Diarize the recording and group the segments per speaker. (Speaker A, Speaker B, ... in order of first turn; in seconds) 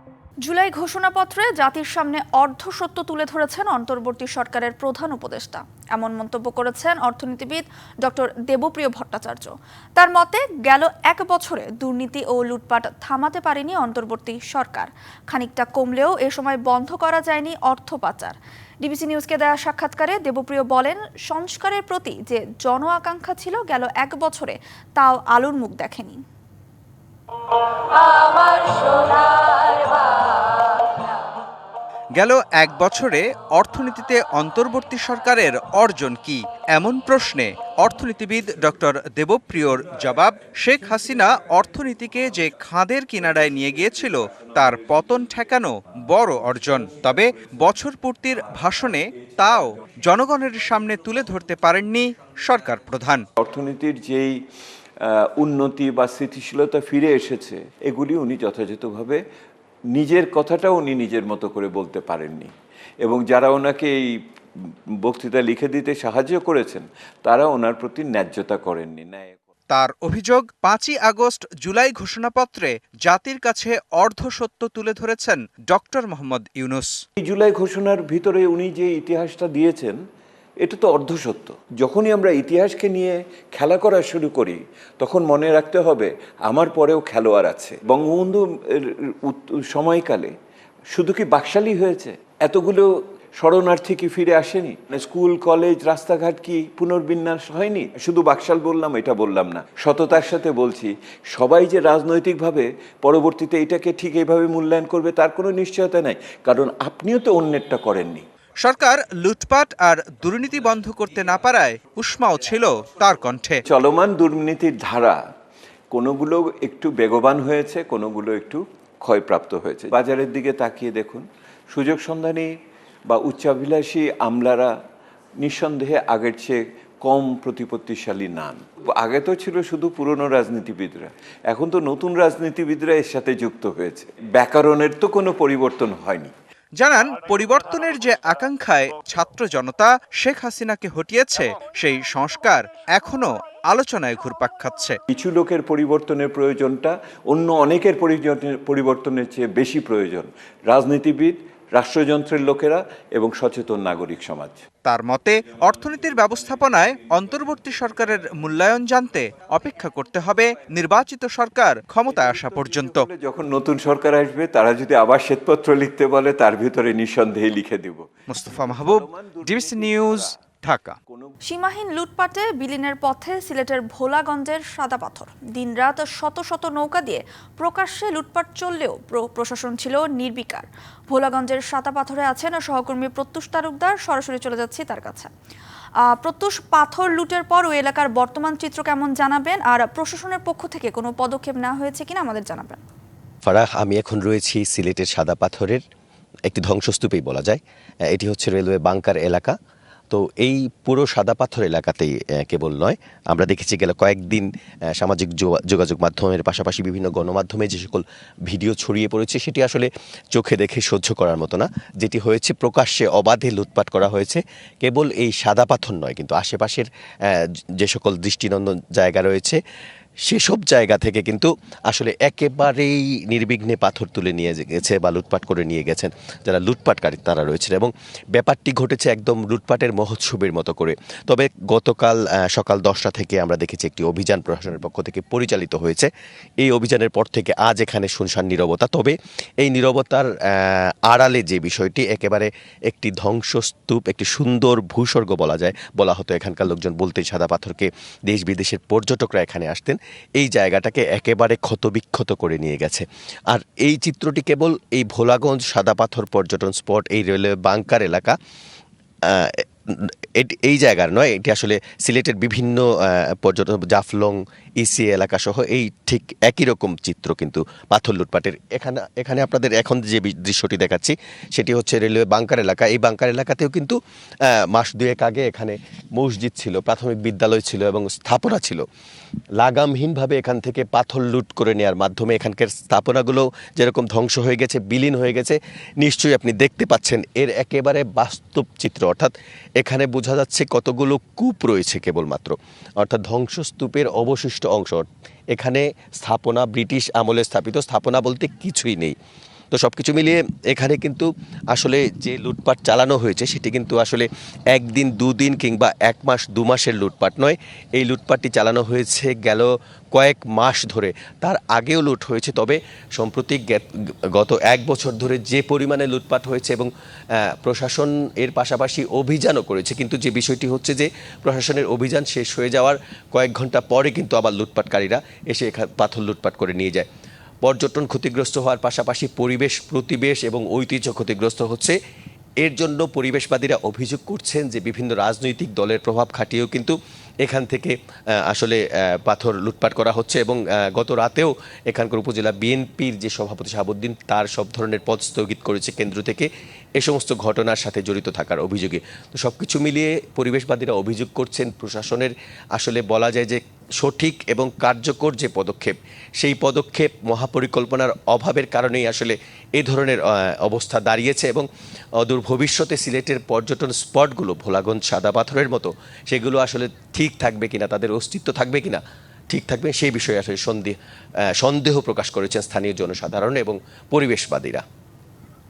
Speaker A: 0.4-26.2, 171.4-185.3, 186.1-192.8
Speaker B: 32.1-53.2, 69.7-76.9, 108.6-113.6, 136.8-145.0, 154.8-163.0, 168.3-171.0
Speaker C: 53.4-54.4, 55.0-59.2, 59.9-62.5, 63.0-64.1, 65.0-69.4, 77.2-80.0, 80.6-90.3, 90.9-108.2, 113.7-115.2, 115.9-122.5, 123.1-124.7, 125.4-136.3, 145.1-154.6, 162.0-170.4, 171.1-171.3
Speaker D: 193.4-195.8, 196.5-199.6, 200.1-219.6, 220.3-236.1, 236.6-258.4, 259.2-273.9, 274.7-278.8, 279.6-299.1, 299.7-316.9, 317.4-327.1, 327.6-331.9, 332.6-337.9, 338.5-361.7, 362.2-371.0, 371.6-374.8